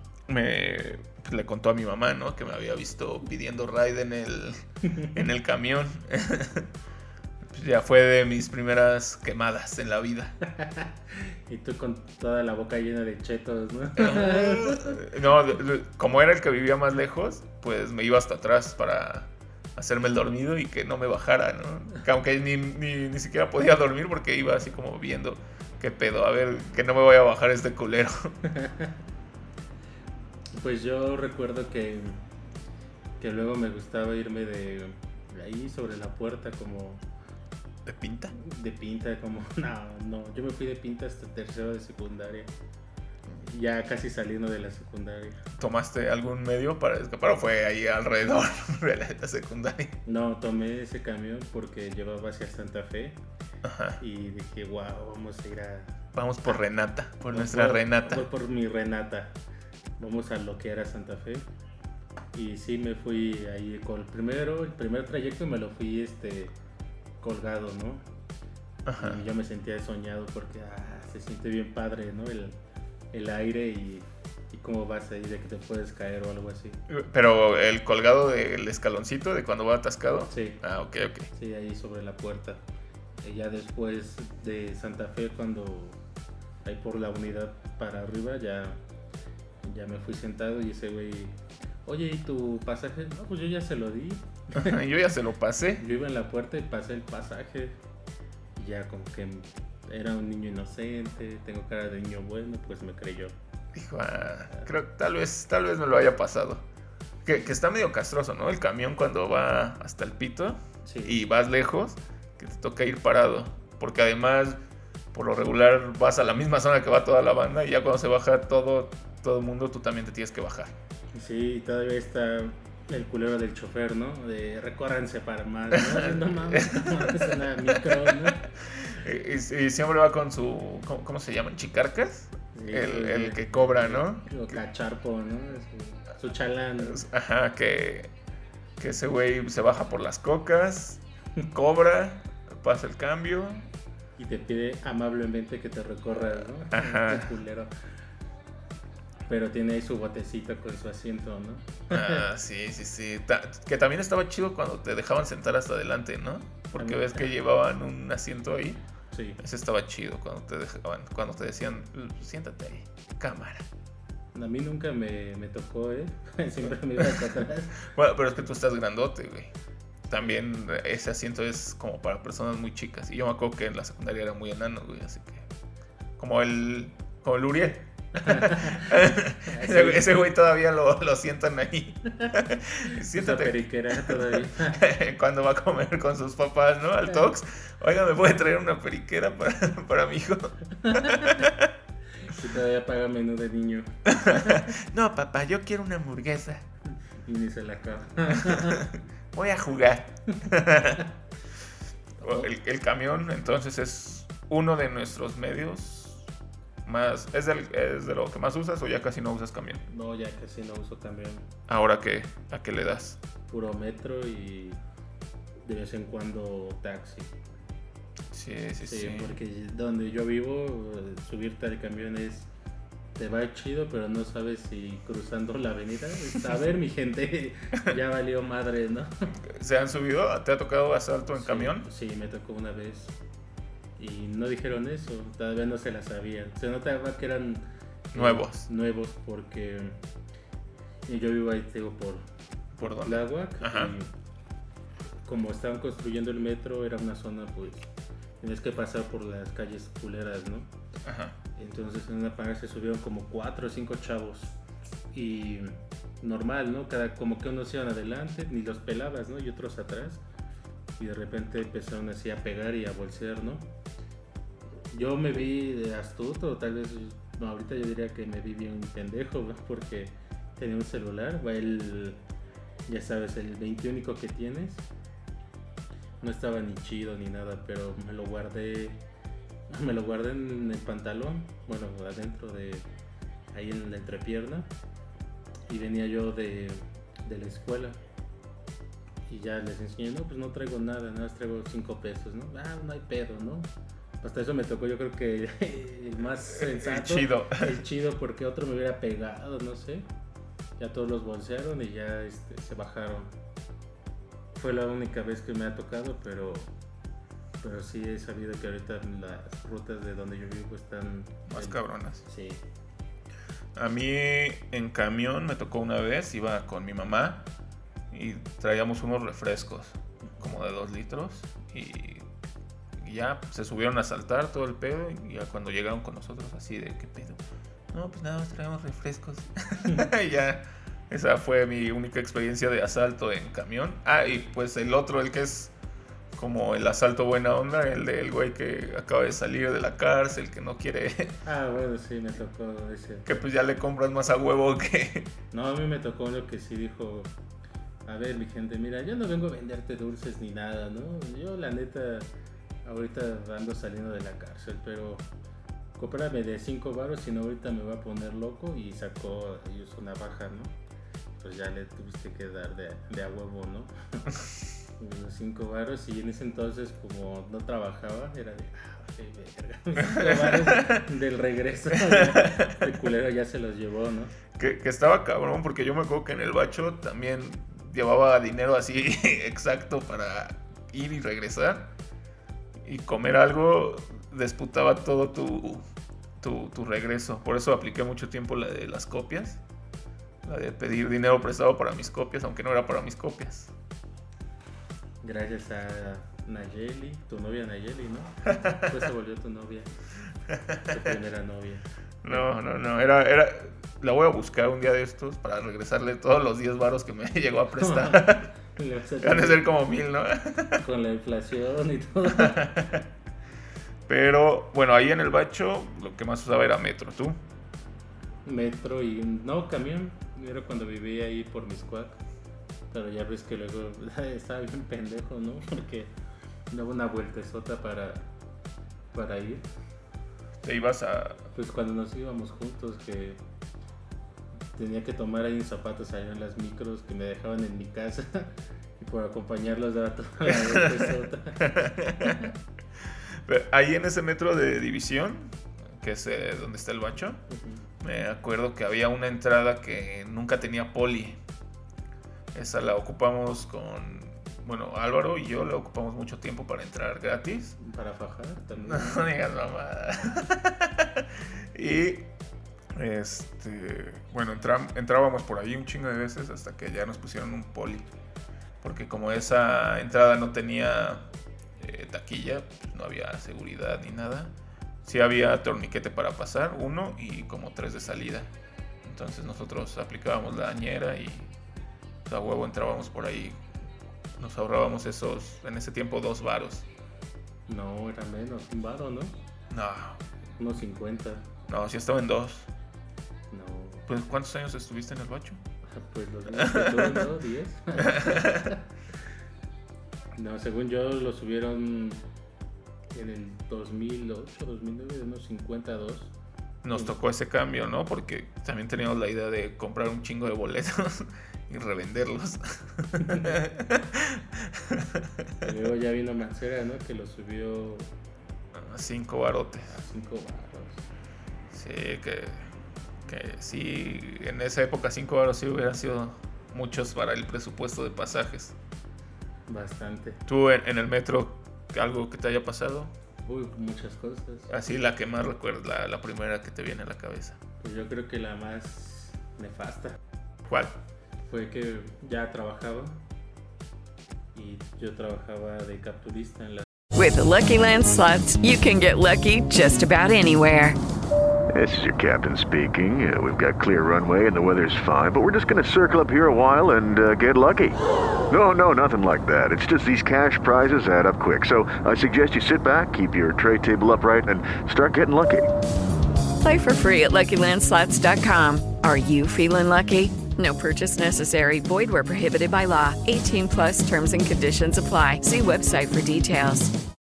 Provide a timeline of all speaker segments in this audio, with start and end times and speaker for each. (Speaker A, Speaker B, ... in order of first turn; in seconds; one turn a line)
Speaker A: 0.3-4.6
Speaker A: 5.1-6.7
Speaker A: 7.5-10.4
Speaker B: 10.5-15.0
Speaker A: 13.9-28.3
Speaker B: 28.5-28.9
Speaker B: 30.6-32.2
Speaker B: 33.2-37.0
Speaker A: 37.8-38.3
Speaker B: 38.4-42.5
Speaker B: 43.4-45.4
Speaker A: 45.6-50.0
Speaker B: 50.0-53.2
Speaker A: 53.6-54.0
Speaker B: 54.0-56.6
Speaker A: 56.1-58.3
Speaker B: 57.3-59.4
Speaker B: 60.0-61.4
Speaker B: 62.3-66.5
Speaker B: 67.2-68.1
Speaker A: 68.8-69.2
Speaker B: 69.0-72.6
Speaker B: 73.1-76.8
Speaker A: 76.9-81.3
Speaker B: 80.3-80.6
Speaker B: 81.3-82.6
Speaker B: 83.2-86.0
Speaker B: 86.6-88.8
Speaker B: 89.6-94.8
Speaker A: 94.5-95.8
Speaker B: 95.8-97.8
Speaker B: 98.6-103.3
Speaker A: 103.7-106.6
Speaker A: 107.2-114.6
Speaker B: 110.8-111.2
Speaker A: 115.1-120.7
Speaker B: 121.1-128.4
Speaker A: 125.7-134.6
Speaker B: 132.5-137.0
Speaker A: 136.8-138.1
Speaker A: 138.8-143.7
Speaker B: 144.2-147.7
Speaker A: 146.1-147.3
Speaker B: 149.3-152.2
Speaker A: 151.9-158.8
Speaker B: 156.8-157.3
Speaker B: 159.1-159.4
Speaker A: 159.4-163.7
Speaker B: 164.3-167.7
Speaker A: 167.0-169.5
Speaker A: 170.1-175.5
Speaker A: 176.2-191.7
Speaker B: 178.2-180.2
Speaker B: 183.1-184.8
Speaker B: 190.8-191.4
Speaker B: 192.2-194.7
Speaker A: 194.1-196.7
Speaker B: 197.2-198.8
Speaker A: 198.3-201.1
Speaker B: 202.2-202.5
Speaker A: 202.2-206.3
Speaker A: 206.8-209.8
Speaker B: 209.9-211.5
Speaker A: 211.7-213.2
Speaker B: 213.5-214.8
Speaker B: 215.6-217.3
Speaker A: 218.3-219.4
Speaker B: 218.8-222.5
Speaker B: 223.1-229.3
Speaker A: 229.4-231.9
Speaker B: 231.3-233.2
Speaker B: 234.0-240.0
Speaker A: 238.1-238.7
Speaker B: 241.1-242.2
Speaker A: 242.8-243.9
Speaker B: 243.0-244.1
Speaker B: 245.2-247.9
Speaker B: 248.4-250.7
Speaker A: 251.0-251.3
Speaker B: 251.6-254.6
Speaker B: 255.1-260.2
Speaker B: 261.0-263.7
Speaker B: 264.9-272.2
Speaker B: 272.9-274.8
Speaker B: 276.2-279.0
Speaker B: 279.7-282.9
Speaker B: 283.5-284.7
Speaker B: 285.7-288.0
Speaker B: 289.3-293.7
Speaker B: 294.2-300.1
Speaker A: 296.5-297.7
Speaker B: 300.8-303.3
Speaker B: 304.5-306.7
Speaker B: 307.6-312.6
Speaker A: 311.5-312.2
Speaker A: 313.7-317.5
Speaker A: 318.1-322.3
Speaker B: 320.2-320.6
Speaker A: 323.0-327.4
Speaker A: 327.9-335.7
Speaker A: 336.3-341.4
Speaker B: 341.4-343.3
Speaker A: 343.2-345.3
Speaker B: 345.5-347.3
Speaker B: 348.0-352.3
Speaker B: 352.8-355.3
Speaker B: 356.0-360.8
Speaker B: 361.4-364.3
Speaker B: 365.0-374.3
Speaker A: 370.0-371.0
Speaker A: 372.0-372.9
Speaker A: 374.5-381.9
Speaker A: 382.8-385.8
Speaker A: 386.4-389.6
Speaker A: 390.4-393.7
Speaker B: 395.2-399.9
Speaker A: 398.5-399.0
Speaker A: 400.5-401.0
Speaker B: 400.9-402.5
Speaker A: 402.2-408.5
Speaker B: 407.8-409.6
Speaker A: 409.2-410.8
Speaker B: 410.8-412.8
Speaker A: 412.3-413.0
Speaker A: 414.1-417.4
Speaker B: 418.4-422.2
Speaker B: 422.9-426.1
Speaker B: 426.7-428.3
Speaker B: 429.1-429.6
Speaker A: 430.6-431.4
Speaker B: 431.5-433.4
Speaker B: 434.7-442.5
Speaker A: 440.5-442.5
Speaker A: 443.4-447.4
Speaker B: 447.5-447.8
Speaker A: 448.0-451.4
Speaker A: 452.5-457.8
Speaker B: 457.8-459.2
Speaker A: 458.8-462.3
Speaker A: 462.9-468.1
Speaker A: 468.8-478.5
Speaker A: 479.0-481.5
Speaker A: 482.2-483.6
Speaker A: 484.4-486.9
Speaker B: 487.7-489.4
Speaker A: 489.7-490.2
Speaker B: 490.6-491.5
Speaker A: 491.7-492.7
Speaker B: 493.5-494.1
Speaker A: 494.1-495.6
Speaker B: 495.8-498.8
Speaker A: 496.5-497.3
Speaker A: 498.0-498.7
Speaker B: 500.4-502.2
Speaker B: 503.1-506.3
Speaker A: 506.8-515.6
Speaker B: 513.2-513.6
Speaker B: 515.6-518.1
Speaker A: 518.7-520.0
Speaker B: 519.9-521.0
Speaker A: 521.7-522.7
Speaker A: 523.2-528.8
Speaker B: 529.7-530.4
Speaker A: 530.5-533.1
Speaker B: 533.4-534.7
Speaker A: 534.7-537.6
Speaker B: 537.8-540.2
Speaker A: 540.7-541.0
Speaker B: 541.4-543.2
Speaker B: 544.5-546.9
Speaker C: 547.1-551.0
Speaker D: 551.7-558.0
Speaker D: 558.5-565.7
Speaker C: 566.6-576.9